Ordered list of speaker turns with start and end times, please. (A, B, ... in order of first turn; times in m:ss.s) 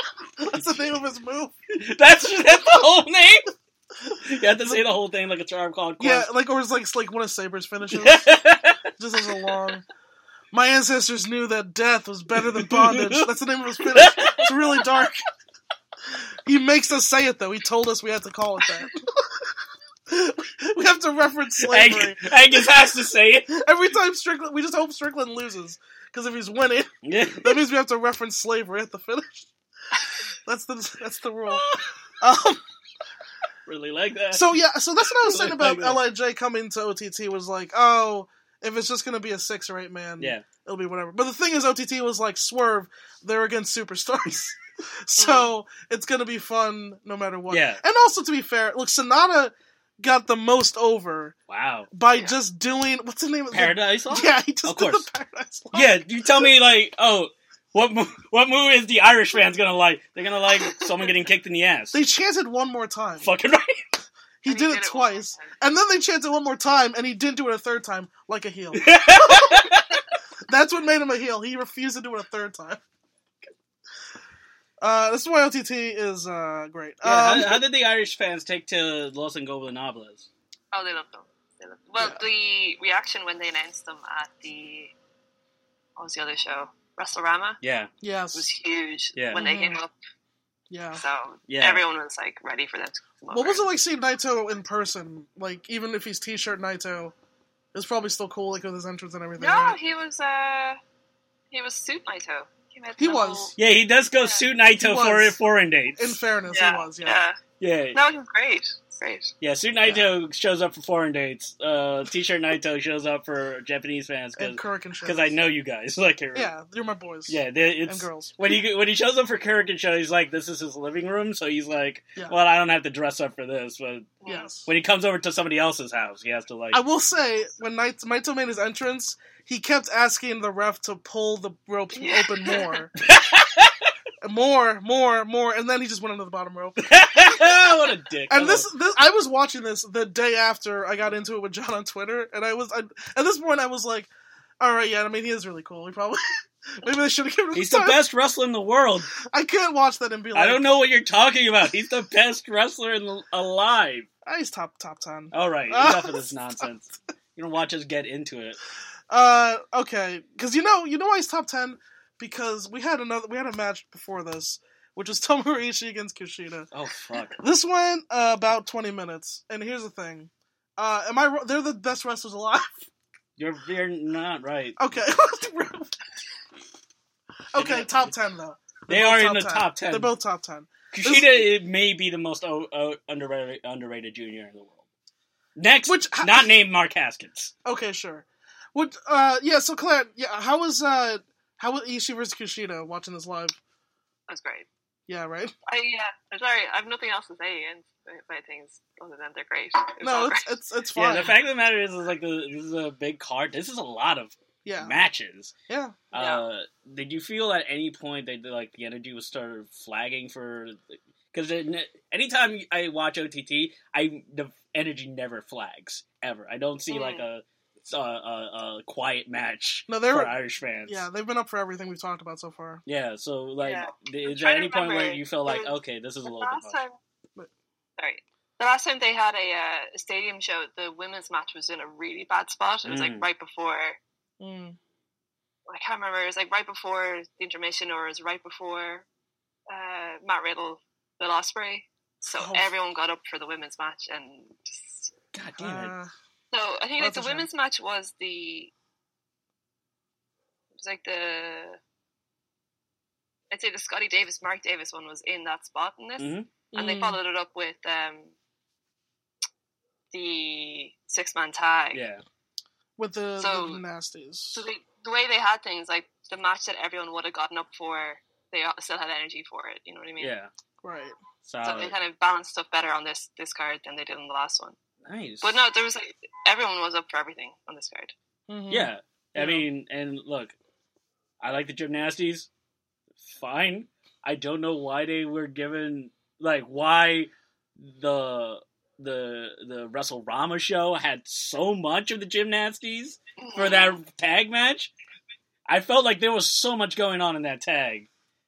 0:00.4-0:01.5 A
0:01.7-0:03.5 B
0:04.2-0:06.3 B
0:06.0-0:09.8 A
0:07.9-0:08.9 B
0:10.5-0:15.2 A
0:12.4-0:14.9 B
0:16.5-0:19.3 A
0:20.1-0:22.6 A
0:21.6-0:23.5 B
0:23.5-0:29.5 A
0:27.0-0:27.6 B
0:30.5-0:31.7 A
0:31.5-0:31.8 B
0:32.2-0:32.6 A
0:33.7-0:34.6 B
0:34.3-0:51.4 A
0:35.2-0:36.0 B
0:40.2-0:40.4 B
0:45.2-0:45.5 C
0:47.5-0:47.8 B
0:51.5-0:51.9 B
0:51.9-0:56.5 A
0:53.5-0:55.1 B
0:55.7-1:02.0 B
1:00.6-1:00.9 C
1:01.9-1:03.3 A
1:03.2-1:03.8 B
1:04.4-1:09.7 A
1:04.5-1:05.6 C
1:08.7-1:10.0 B
1:10.5-1:12.8 A
1:14.8-1:17.6 A
1:17.0-1:20.3 B
1:20.7-1:24.9 C
1:26.0-1:27.6 C
1:27.6-1:27.9 B
1:28.0-1:28.5 A
1:28.4-1:29.9 C
1:29.2-1:29.4 B
1:29.4-1:29.8 A
1:30.7-1:31.0 A
1:30.9-1:33.6 C
1:31.5-1:31.8 B
1:33.3-1:37.1 A
1:37.7-1:39.8 A
1:39.4-1:40.8 C
1:41.5-1:43.6 C
1:43.0-1:43.5 A
1:43.6-1:46.2 B
1:44.2-1:44.4 C
1:44.8-1:45.4 A
1:46.0-1:47.2 A
1:46.5-1:47.4 C
1:47.6-1:48.0 B
1:47.9-1:49.3 C
1:49.4-1:56.5 B
1:49.8-1:50.1 A
1:54.4-1:55.4 A
1:56.3-1:58.4 A
1:57.3-2:06.8 B
2:04.2-2:04.5 C
2:04.3-2:04.7 A
2:06.7-2:12.9 A
2:12.0-2:12.8 C
2:13.0-2:13.9 B
2:14.2-2:17.6 A
2:16.8-2:18.7 B
2:18.3-2:28.0 A
2:27.5-2:29.1 B
2:29.2-2:30.8 A
2:30.4-2:34.1 B
2:34.2-2:36.3 A
2:35.3-2:38.6 B
2:39.1-2:46.7 A
2:46.7-2:47.4 B
2:47.4-2:52.9 A
2:53.4-2:54.8 B
2:54.8-2:55.9 A
2:57.5-3:01.4 A
2:57.6-2:58.1 B
2:58.9-3:00.1 B
3:00.9-3:04.8 B
3:05.6-3:07.5 B
3:05.9-3:06.5 A
3:07.6-3:13.6 A
3:14.3-3:14.7 C
3:15.1-3:15.5 A
3:15.7-3:20.5 C
3:20.0-3:21.4 A
3:21.0-3:25.5 B
3:24.6-3:25.0 A
3:25.7-3:26.0 A
3:26.1-3:41.1 B
3:26.1-3:26.4 C
3:36.9-3:37.2 C
3:39.9-3:42.8 A
3:42.9-3:46.8 B
3:43.6-3:47.0 C
3:48.0-3:54.0 C
3:52.8-3:53.3 B
3:54.4-3:54.8 A
3:55.7-3:59.1 C
3:59.7-4:05.1 C
4:02.3-4:02.7 A
4:05.3-4:05.9 B
4:05.6-4:06.1 A
4:06.5-4:08.7 C
4:07.0-4:07.5 A
4:10.8-4:11.8 C
4:13.5-4:18.3 C
4:16.2-4:16.5 B
4:16.7-4:17.2 A
4:20.1-4:22.0 C
4:21.9-4:22.2 B
4:23.0-4:24.6 A
4:23.4-4:23.8 C
4:24.5-4:30.3 C
4:30.2-4:30.5 B
4:30.8-4:31.2 A
4:31.4-4:32.0 B
4:31.6-4:34.8 C
4:35.0-4:35.6 B
4:35.4-4:38.1 C
4:38.5-4:39.7 A
4:38.7-4:40.6 B
4:41.4-4:42.5 B
4:43.2-4:54.9 B
4:53.4-4:54.0 C
4:55.7-4:58.1 B